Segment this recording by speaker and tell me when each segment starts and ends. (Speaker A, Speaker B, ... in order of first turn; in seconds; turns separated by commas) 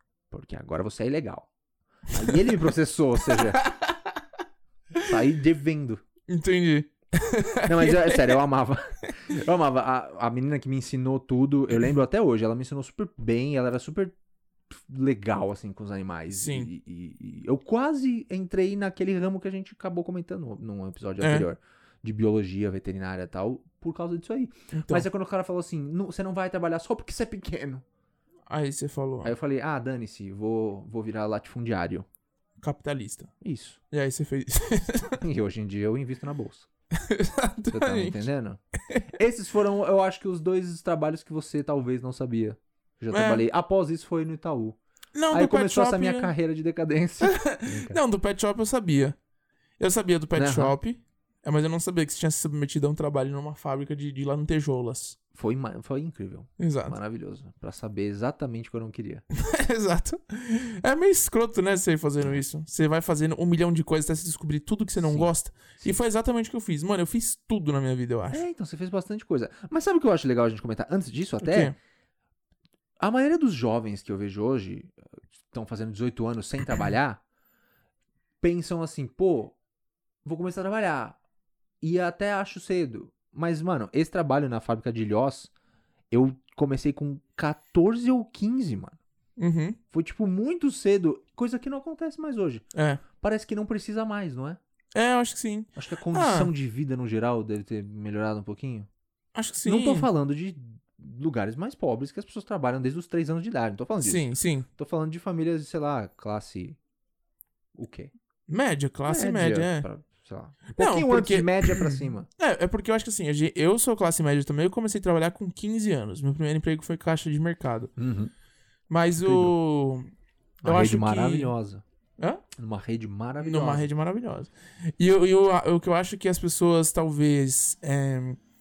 Speaker A: 0.3-1.5, Speaker A: 2.1-3.6, Speaker B: 2.3-2.5, Speaker B: 3.3-4.2, Speaker A: 5.0-6.0, Speaker B: 6.3-8.4, Speaker A: 7.7-14.1, Speaker A: 14.7-27.8, Speaker B: 16.3-16.7, Speaker B: 21.2-21.5, Speaker B: 24.7-25.1, Speaker B: 28.5-29.3, Speaker A: 29.2-32.0, Speaker B: 32.6-33.3, Speaker A: 33.4-33.8, Speaker B: 33.9-35.2, Speaker A: 35.2-36.7, Speaker B: 36.9-38.2, Speaker A: 37.7-38.6, Speaker A: 39.1-44.8, Speaker B: 43.1-43.4, Speaker B: 45.1-46.3, Speaker A: 45.3-48.0, Speaker B: 47.2-49.1, Speaker B: 49.8-55.2, Speaker A: 50.4-50.8, Speaker A: 55.3-59.2, Speaker B: 56.6-56.9, Speaker B: 59.3-68.4, Speaker A: 65.0-66.0, Speaker A: 68.3-71.7, Speaker B: 71.4-71.7, Speaker A: 73.0-75.0, Speaker A: 75.5-77.2, Speaker A: 78.4-79.5, Speaker A: 80.2-81.2, Speaker A: 81.8-85.5, Speaker A: 86.1-89.0, Speaker B: 89.4-89.8, Speaker A: 89.9-92.6, Speaker B: 92.7-93.0, Speaker A: 93.2-94.6, Speaker B: 94.9-96.5, Speaker A: 95.7-98.9, Speaker B: 99.3-100.1, Speaker A: 99.6-106.8, Speaker B: 104.0-104.7, Speaker A: 107.8-108.1, Speaker B: 108.5-109.9, Speaker A: 109.1-112.3, Speaker B: 110.8-117.9, Speaker A: 118.0-118.3, Speaker B: 118.9-120.1, Speaker A: 119.2-119.5, Speaker A: 120.6-121.8, Speaker B: 120.6-121.5, Speaker B: 122.2-122.4, Speaker A: 122.6-123.9, Speaker B: 123.4-128.4